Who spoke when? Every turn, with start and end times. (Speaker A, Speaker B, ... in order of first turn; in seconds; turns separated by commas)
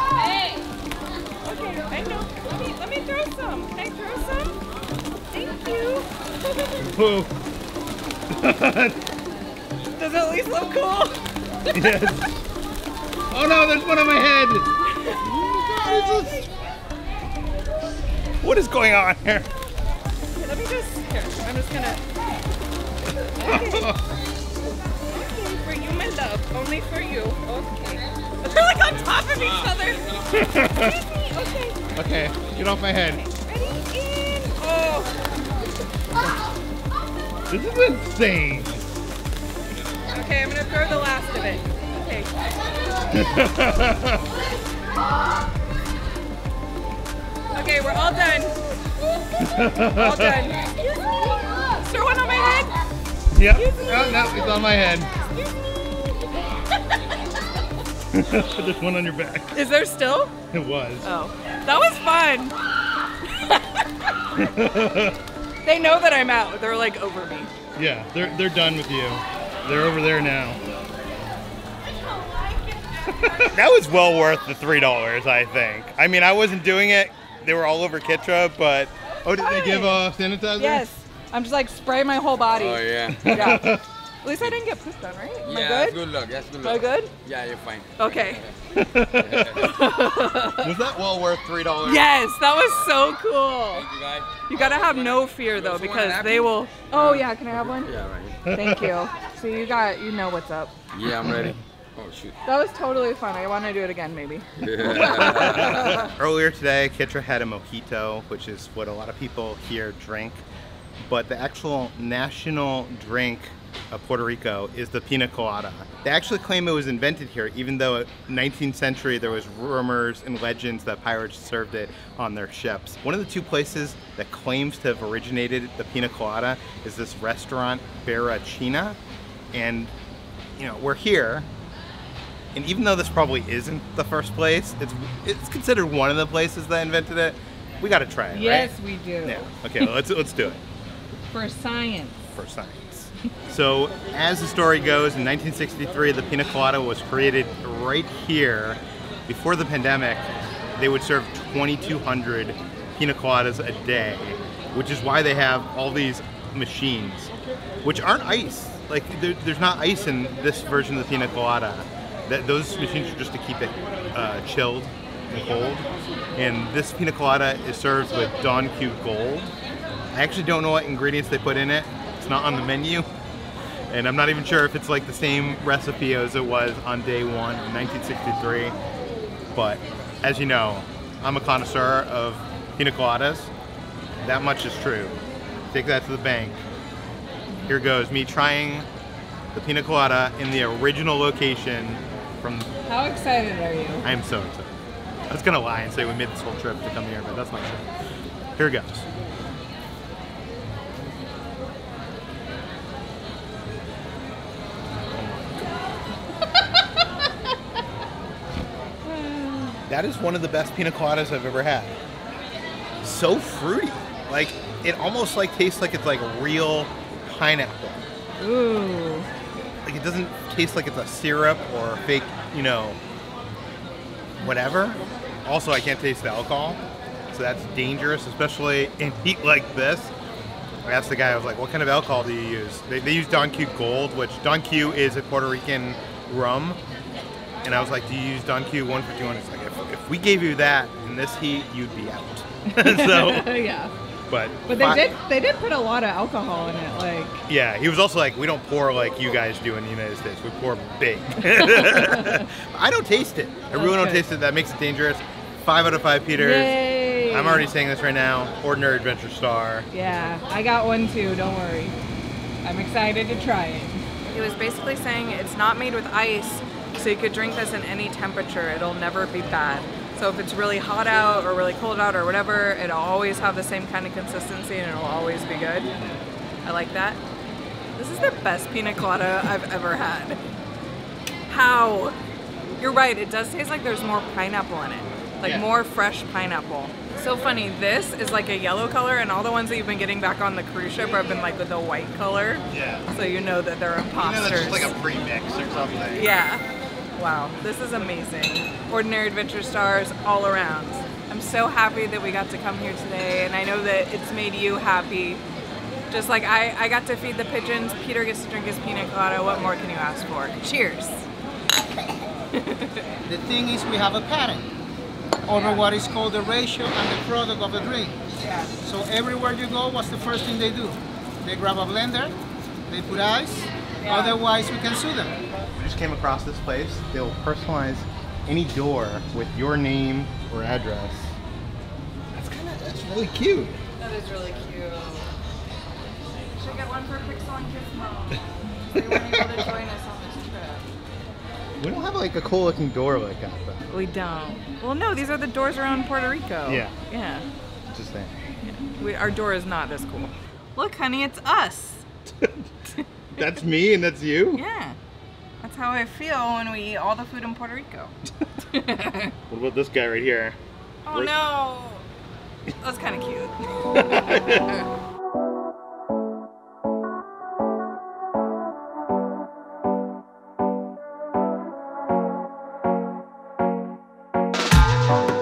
Speaker A: 1.4-4.6, Speaker A: 5.3-6.8, Speaker B: 6.8-7.3, Speaker B: 8.3-9.0, Speaker A: 9.9-12.2, Speaker B: 11.7-12.3, Speaker B: 13.3-16.5, Speaker A: 15.8-16.4, Speaker B: 18.4-19.5, Speaker A: 20.3-22.0, Speaker A: 23.3-24.0, Speaker B: 23.4-24.0, Speaker A: 25.1-31.8, Speaker B: 30.3-31.0, Speaker B: 31.9-33.2, Speaker A: 33.0-35.1, Speaker B: 37.5-38.9, Speaker A: 40.1-42.3, Speaker B: 43.1-44.3, Speaker A: 47.5-48.6, Speaker B: 49.4-50.5, Speaker A: 49.9-50.6, Speaker A: 51.8-52.7, Speaker B: 53.3-55.1, Speaker A: 53.5-54.5, Speaker B: 58.1-59.6, Speaker A: 59.5-60.4, Speaker B: 60.5-61.1, Speaker A: 61.0-62.5, Speaker A: 63.2-64.4, Speaker B: 64.3-65.2, Speaker A: 65.6-67.5, Speaker B: 67.8-70.6, Speaker A: 72.0-73.5, Speaker B: 73.3-80.8, Speaker A: 79.4-80.0, Speaker A: 80.6-86.0, Speaker C: 82.5-83.6, Speaker B: 83.2-83.8, Speaker C: 85.4-89.7, Speaker A: 86.6-87.1, Speaker A: 88.0-88.4, Speaker B: 88.8-89.7, Speaker A: 89.5-90.7, Speaker B: 90.6-92.1, Speaker A: 91.8-93.9, Speaker C: 93.7-98.4, Speaker A: 94.5-97.9, Speaker B: 98.5-98.9, Speaker A: 98.5-100.8, Speaker C: 100.9-102.4, Speaker B: 101.3-101.5, Speaker A: 102.5-106.1, Speaker C: 104.6-105.9, Speaker B: 105.0-110.5, Speaker B: 111.0-129.0, Speaker B: 129.5-129.9, Speaker B: 130.6-131.5, Speaker B: 132.5-140.6, Speaker A: 138.3-139.9, Speaker A: 141.3-142.3, Speaker B: 142.3-157.3, Speaker B: 157.8-169.5, Speaker B: 170.1-173.1, Speaker B: 173.9-178.8, Speaker B: 179.5-183.5, Speaker B: 184.2-185.2, Speaker B: 185.7-186.6, Speaker B: 187.7-188.9, Speaker B: 189.5-192.7, Speaker A: 192.9-194.1, Speaker B: 194.0-194.8, Speaker B: 195.3-197.9, Speaker B: 198.5-199.1, Speaker B: 205.1-205.7, Speaker A: 209.0-209.8, Speaker B: 209.9-212.0, Speaker B: 213.0-218.1, Speaker A: 218.4-219.3, Speaker B: 219.8-223.0, Speaker B: 224.4-230.1, Speaker B: 230.8-236.8, Speaker B: 237.6-243.6, Speaker A: 242.7-243.9, Speaker B: 244.3-245.1, Speaker A: 244.7-247.4, Speaker B: 247.5-259.9, Speaker A: 251.5-252.4, Speaker A: 253.7-254.2, Speaker A: 256.4-257.7, Speaker A: 259.9-262.0, Speaker A: 262.6-275.9, Speaker A: 276.6-277.2, Speaker A: 278.0-280.4, Speaker A: 281.5-282.2, Speaker A: 282.8-294.9, Speaker B: 292.7-293.1, Speaker B: 294.2-296.4, Speaker A: 296.1-296.6, Speaker A: 297.2-305.4, Speaker A: 306.1-311.3, Speaker A: 312.5-313.2, Speaker D: 313.2-314.7, Speaker D: 315.5-318.2, Speaker A: 315.6-315.8, Speaker A: 318.4-318.7, Speaker D: 318.8-325.4, Speaker A: 324.0-324.4, Speaker B: 325.8-331.3, Speaker B: 332.3-333.8, Speaker A: 334.0-335.3, Speaker A: 336.5-340.9, Speaker B: 339.0-339.7, Speaker B: 341.8-343.9, Speaker A: 343.9-347.5, Speaker B: 346.7-346.9, Speaker B: 347.9-348.4, Speaker A: 348.6-352.1, Speaker B: 352.3-352.7, Speaker B: 353.4-354.6, Speaker A: 354.5-355.0, Speaker A: 355.6-358.1, Speaker A: 358.7-359.3, Speaker B: 359.5-360.6, Speaker A: 361.0-362.0, Speaker A: 362.7-364.8, Speaker B: 363.9-364.7